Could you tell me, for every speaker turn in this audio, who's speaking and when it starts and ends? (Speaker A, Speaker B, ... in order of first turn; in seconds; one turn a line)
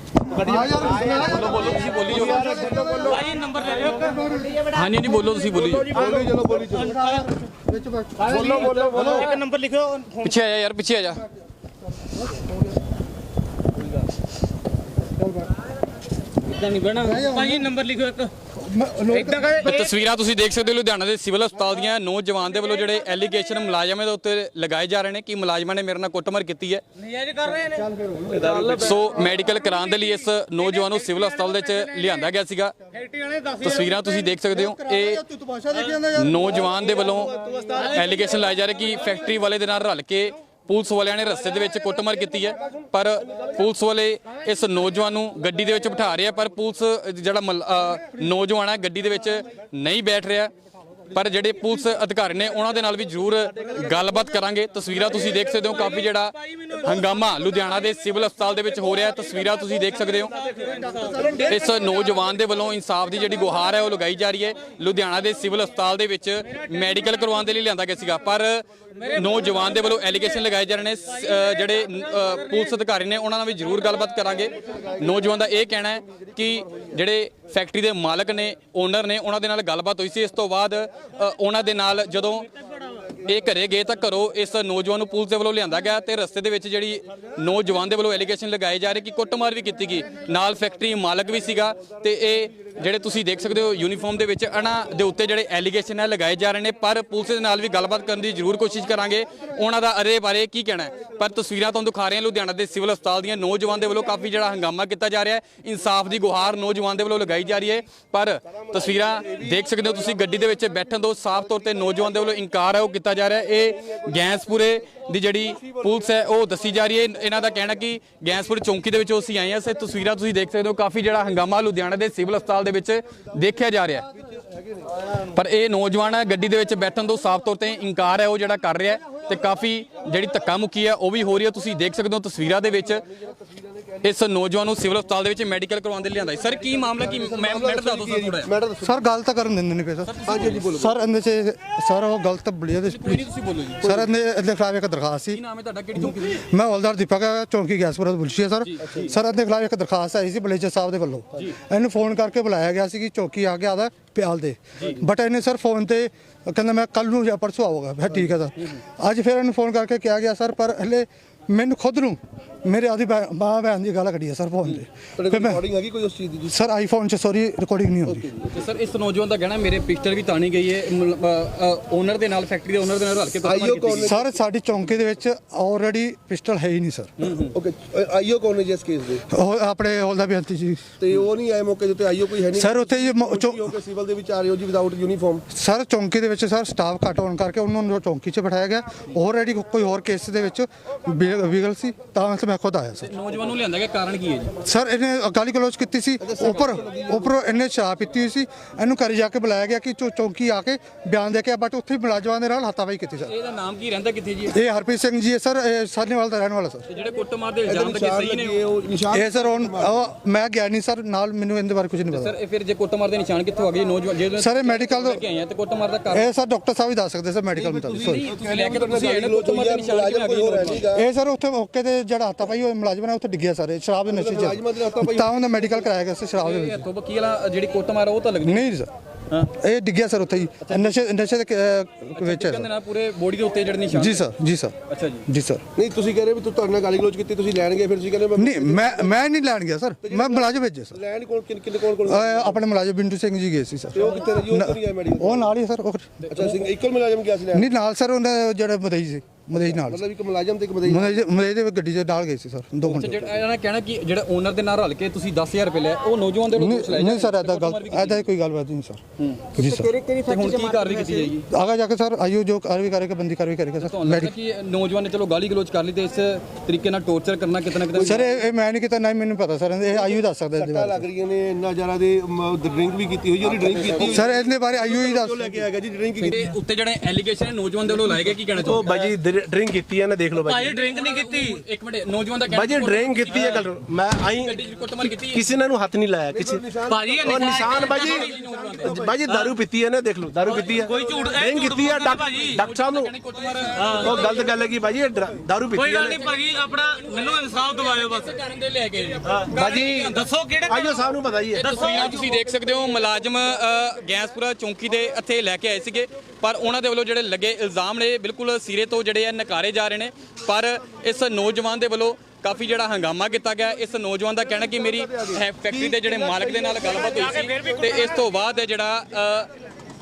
Speaker A: 0.3-4.7
Speaker B: 0.3-1.1
Speaker C: 0.5-3.4
Speaker D: 1.2-2.6
Speaker E: 3.0-4.3
Speaker D: 4.7-6.1
Speaker C: 5.7-7.0
Speaker E: 6.0-7.3
Speaker A: 6.2-9.3
Speaker E: 8.2-10.4
Speaker C: 8.3-9.3
Speaker D: 10.2-11.2
Speaker A: 12.2-12.6
Speaker A: 15.2-15.5
Speaker E: 16.4-18.3
Speaker A: 17.0-17.7
Speaker A: 18.6-19.8
Speaker E: 19.1-19.9
Speaker D: 19.6-26.8
Speaker E: 27.0-27.9
Speaker A: 27.7-29.1
Speaker B: 28.3-29.1
Speaker D: 28.5-32.8
Speaker E: 29.1-32.3
Speaker E: 32.9-34.0
Speaker D: 33.6-35.2
Speaker A: 34.2-36.8
Speaker D: 35.9-50.5
Speaker B: 36.7-38.2
Speaker E: 37.8-38.2
Speaker D: 51.1-60.3
Speaker E: 60.4-61.6
Speaker C: 60.7-61.6
Speaker A: 61.0-61.3
Speaker D: 61.4-82.5
Speaker E: 69.0-70.2
Speaker E: 71.5-72.6
Speaker D: 83.2-124.1
Speaker C: 109.2-109.7
Speaker C: 124.4-124.9
Speaker D: 125.2-133.1
Speaker C: 133.2-134.1
Speaker D: 134.0-138.5
Speaker C: 137.1-139.1
Speaker A: 138.8-140.2
Speaker D: 140.1-140.7
Speaker C: 140.2-141.0
Speaker A: 140.7-143.3
Speaker D: 142.9-143.9
Speaker A: 143.8-145.4
Speaker D: 145.3-146.5
Speaker A: 146.0-165.7
Speaker D: 148.6-149.1
Speaker C: 165.2-166.6
Speaker A: 166.5-168.3
Speaker C: 168.1-168.6
Speaker D: 168.5-174.2
Speaker C: 173.4-174.4
Speaker A: 174.0-177.1
Speaker D: 177.2-177.6
Speaker C: 177.5-179.2
Speaker A: 179.3-181.0
Speaker C: 181.0-185.4
Speaker A: 182.5-183.8
Speaker A: 185.5-193.1
Speaker D: 193.0-194.6
Speaker A: 194.6-203.3
Speaker C: 196.2-197.4
Speaker D: 203.2-204.6
Speaker A: 204.5-206.9
Speaker D: 206.9-208.6
Speaker C: 207.7-210.1
Speaker A: 209.1-212.4
Speaker D: 212.1-216.3
Speaker A: 214.4-215.2
Speaker A: 216.1-218.3
Speaker C: 217.6-221.1
Speaker D: 218.0-220.9
Speaker A: 220.9-226.9
Speaker C: 224.1-225.9
Speaker D: 226.4-228.7
Speaker A: 228.4-228.9
Speaker A: 229.5-232.7
Speaker D: 230.6-231.0
Speaker D: 232.2-234.2
Speaker A: 233.9-234.8
Speaker D: 234.9-235.2
Speaker A: 235.3-235.7
Speaker C: 235.8-239.1
Speaker A: 238.4-241.0
Speaker C: 240.0-242.6
Speaker A: 242.0-246.2
Speaker C: 243.9-245.5
Speaker D: 246.2-246.6
Speaker C: 246.3-247.7
Speaker A: 247.5-250.1
Speaker C: 249.6-251.2
Speaker A: 250.8-253.3
Speaker D: 252.9-258.3
Speaker C: 253.0-253.3
Speaker A: 256.5-259.0
Speaker D: 259.2-259.6
Speaker A: 259.6-260.0
Speaker D: 260.1-261.4
Speaker A: 261.5-264.3
Speaker D: 263.8-268.2
Speaker C: 267.9-268.3
Speaker A: 268.0-271.1
Speaker C: 269.9-276.5
Speaker D: 273.6-274.3
Speaker A: 274.0-275.6
Speaker D: 276.2-279.1
Speaker B: 278.6-280.8
Speaker E: 280.4-281.6
Speaker D: 280.8-285.5
Speaker B: 282.5-286.6
Speaker C: 286.2-287.4
Speaker E: 286.9-288.3
Speaker B: 287.2-288.3
Speaker D: 287.5-289.0
Speaker C: 288.1-289.3
Speaker B: 289.0-293.1
Speaker E: 289.3-289.5
Speaker E: 290.5-292.6
Speaker D: 292.2-294.4
Speaker E: 293.8-294.3
Speaker B: 294.0-296.2
Speaker E: 295.8-298.4
Speaker D: 296.0-296.4
Speaker D: 297.1-300.1
Speaker B: 299.2-299.9
Speaker E: 299.5-301.1
Speaker B: 300.7-301.8
Speaker D: 301.5-319.5
Speaker E: 301.6-302.2
Speaker C: 315.0-317.8
Speaker E: 316.8-318.2